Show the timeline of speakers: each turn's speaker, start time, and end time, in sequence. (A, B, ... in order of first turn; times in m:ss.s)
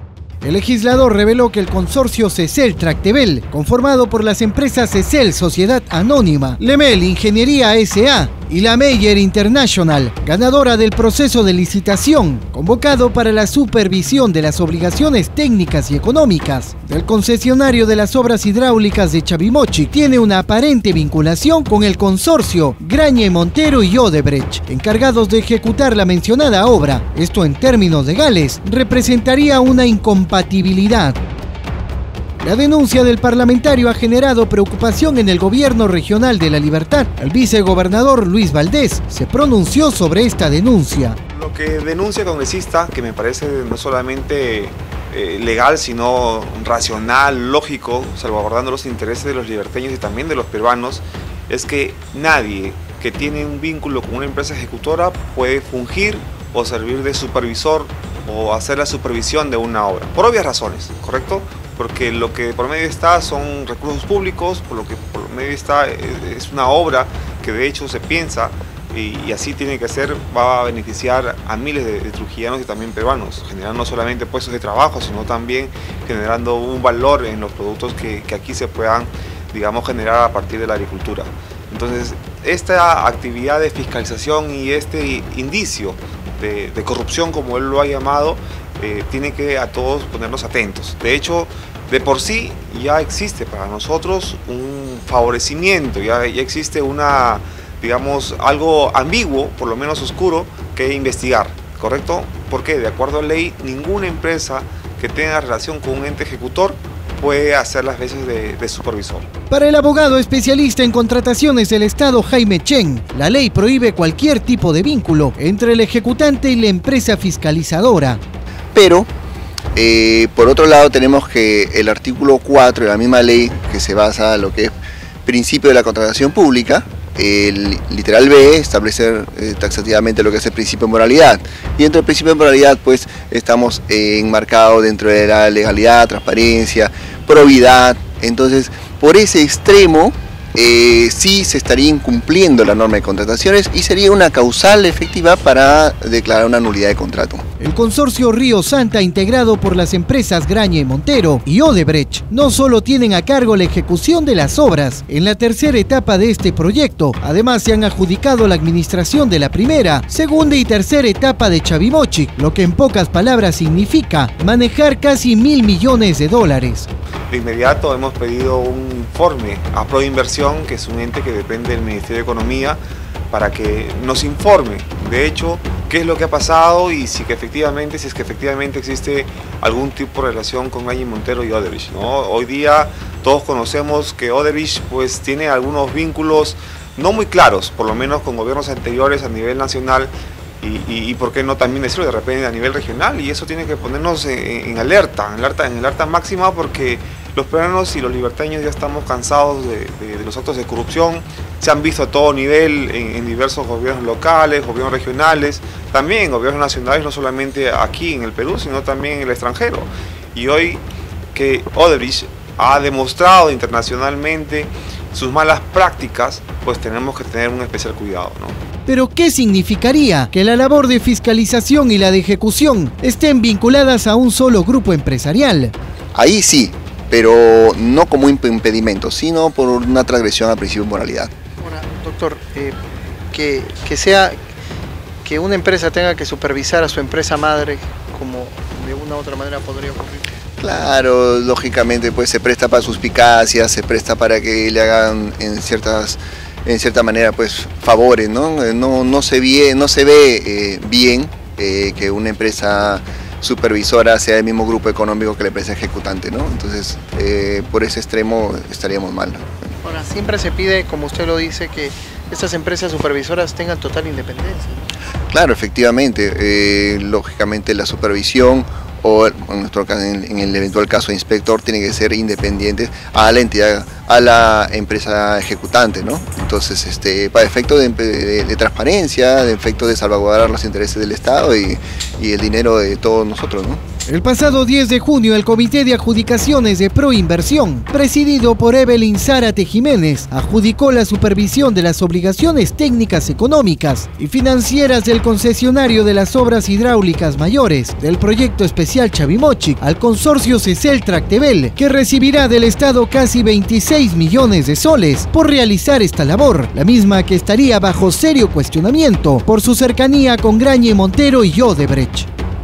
0:00.4-0:31.2 A
0:32.4-0:41.2 A
0:41.3-1:49.3 B
1:49.5-1:58.2 A
1:58.7-1:59.1 C
1:59.7-2:27.4 C
2:27.6-2:46.9 A
2:47.3-2:52.8 B
2:53.3-3:38.6 B
3:38.8-3:45.7 A
3:46.1-3:51.3 C
3:51.6-3:52.8 D
3:53.3-3:54.4 D
3:55.2-4:00.3 D
4:00.6-4:19.5 C
4:19.8-4:24.8 D
4:25.3-4:43.8 C
4:44.1-5:12.3 A